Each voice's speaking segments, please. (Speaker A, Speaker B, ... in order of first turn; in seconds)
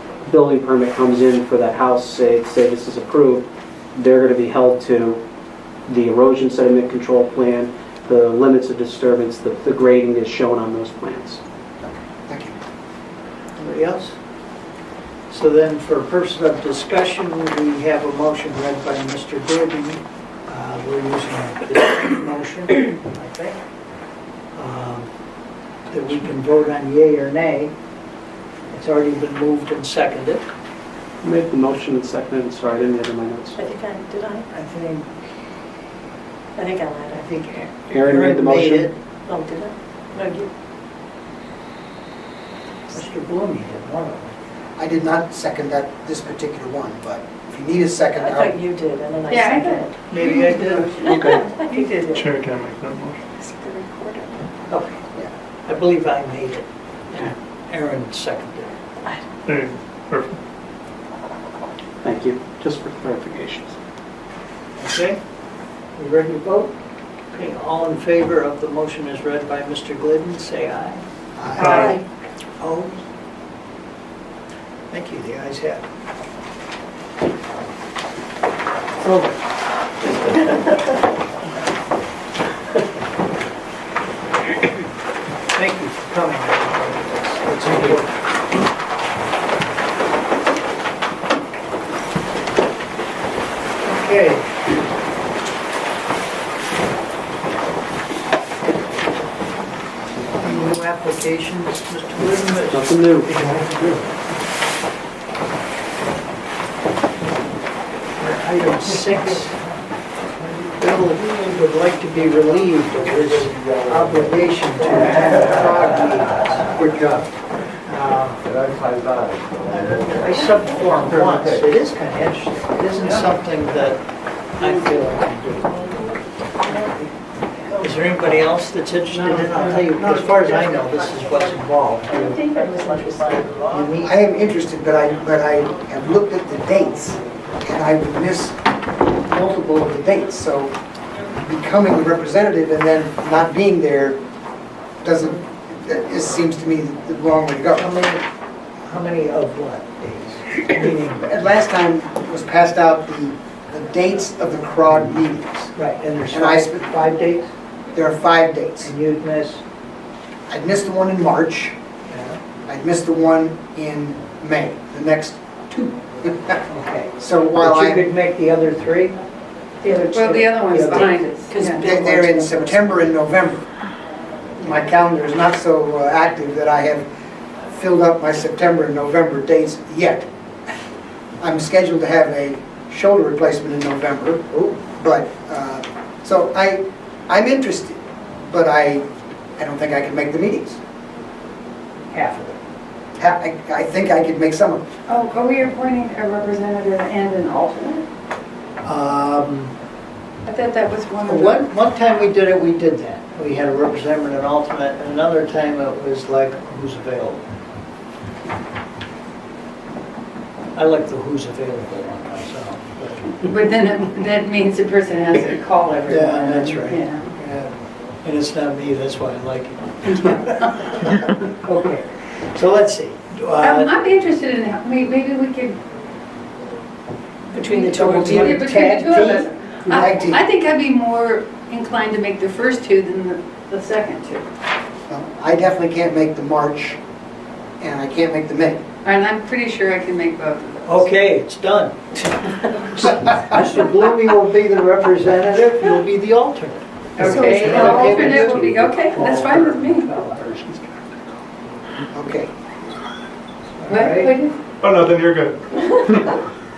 Speaker A: 0.3-5.2, 5.9-11.4, 31.2-33.6, 37.9-38.9, 62.0-63.8, 102.7-103.3
Speaker B: 11.8-12.6, 44.8-48.6, 134.0-138.6, 139.3-140.8, 141.4-144.2, 145.0-147.9, 151.2-155.7, 156.3-156.9, 157.9-158.9, 160.5-161.8, 162.7-166.6, 167.2-168.1, 171.8-173.7, 174.6-177.1, 177.7-180.3, 181.4-189.1, 189.6-190.8, 193.2-194.8, 228.1-228.6, 229.9-230.4, 235.1-237.0, 237.8-238.8, 252.1-252.5
Speaker C: 13.6-14.2, 15.3-23.6, 24.6-25.1, 25.9-27.7, 28.7-30.5, 34.5-35.3, 37.1-39.0, 42.9-44.3, 50.1-51.0, 54.7-55.0, 55.7-58.8, 64.8-65.2, 66.0-66.7, 67.3-72.0, 72.6-73.0, 74.9-75.8, 85.5-88.2, 93.8-94.5, 100.4-104.1, 108.2-109.6, 110.7-117.3, 117.8-118.4, 119.8-124.0, 124.6-125.8, 127.8-132.5, 133.6-134.1, 147.8-148.2, 148.8-151.3, 155.8-157.5, 158.8-159.6, 162.1-162.4, 166.7-169.2, 169.8-171.9, 184.5-184.8, 192.1-192.6, 198.8-199.7, 201.2-207.4, 210.8-213.4, 216.1-223.9, 227.5-229.9, 240.9-250.4, 253.8-254.3
Speaker D: 33.6-34.5, 36.6-37.3, 39.3-40.5, 48.2-50.0, 50.5-52.3, 53.3-54.4, 71.6-72.0, 130.1-130.5, 132.1-133.7, 171.5-172.9, 227.9-228.5, 247.3-248.0
Speaker E: 49.3-52.0, 169.9-171.8, 195.1-198.1, 200.4-201.7, 213.4-217.3, 223.6-225.8, 227.8-234.5, 239.0-241.1, 247.2-250.1, 253.9-254.6
Speaker F: 51.0-51.4, 52.1-53.2, 59.5-60.4, 247.9-248.8, 249.4-251.2, 254.8-256.4